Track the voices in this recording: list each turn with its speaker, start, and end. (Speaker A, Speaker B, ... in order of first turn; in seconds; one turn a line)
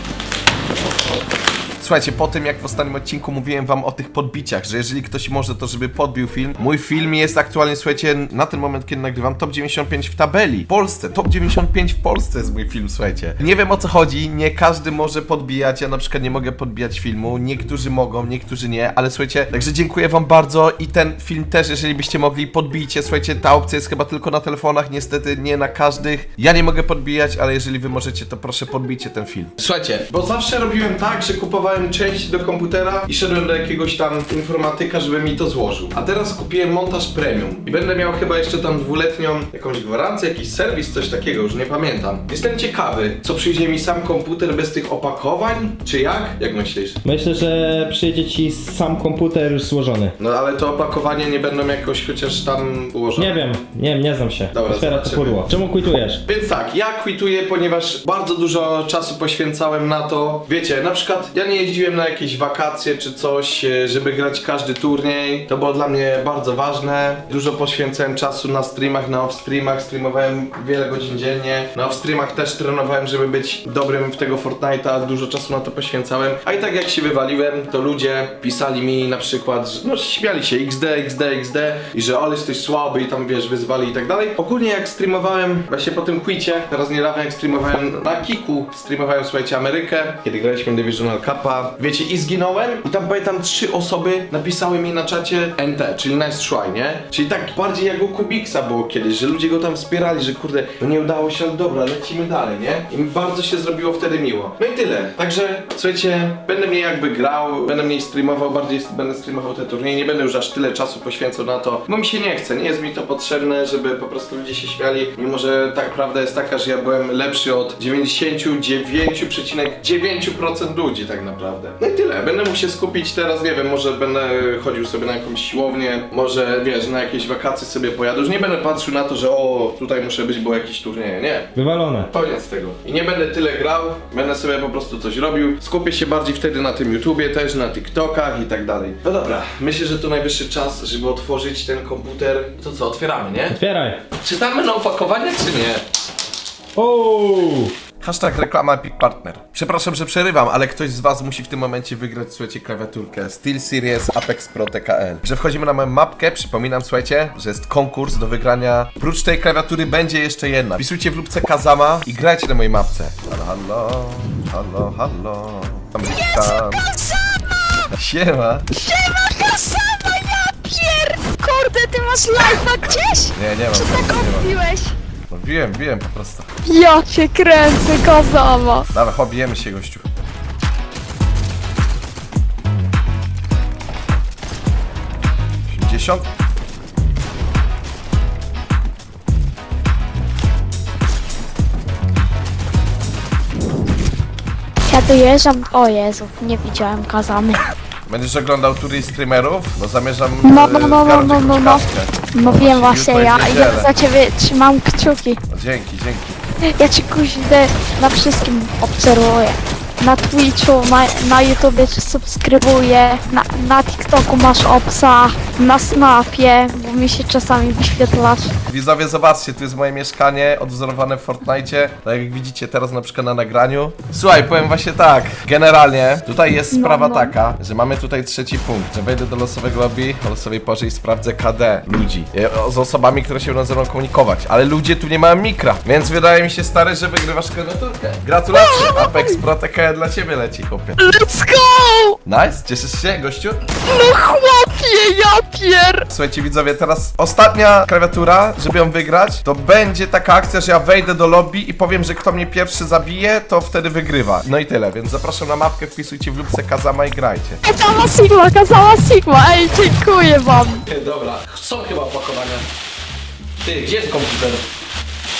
Speaker A: 1.8-47.0
Speaker B: 47.0-50.1
Speaker A: 50.2-53.3
Speaker B: 53.1-56.2
Speaker A: 54.5-55.5
Speaker A: 56.2-131.5
Speaker B: 131.5-132.1
Speaker A: 132.1-143.6
Speaker B: 143.5-144.0
Speaker A: 144.2-145.8
Speaker B: 146.7-147.7
Speaker A: 148.0-166.9
Speaker C: 166.1-167.4
Speaker A: 167.9-168.7
Speaker C: 168.7-174.9
Speaker A: 172.8-174.5
Speaker A: 175.3-176.5
Speaker C: 176.6-178.9
Speaker A: 178.9-180.0
Speaker A: 185.7-186.2
Speaker C: 194.8-197.6
Speaker A: 198.1-203.9
Speaker C: 200.4-205.4
Speaker A: 205.5-206.4
Speaker C: 206.7-218.5
Speaker A: 218.6-241.0
Speaker C: 226.7-227.4
Speaker C: 238.5-239.4
Speaker C: 241.0-242.2
Speaker A: 242.2-243.6
Speaker C: 243.8-246.1
Speaker A: 246.1-257.6
Speaker C: 257.6-260.8
Speaker A: 260.9-262.6
Speaker A: 263.6-264.6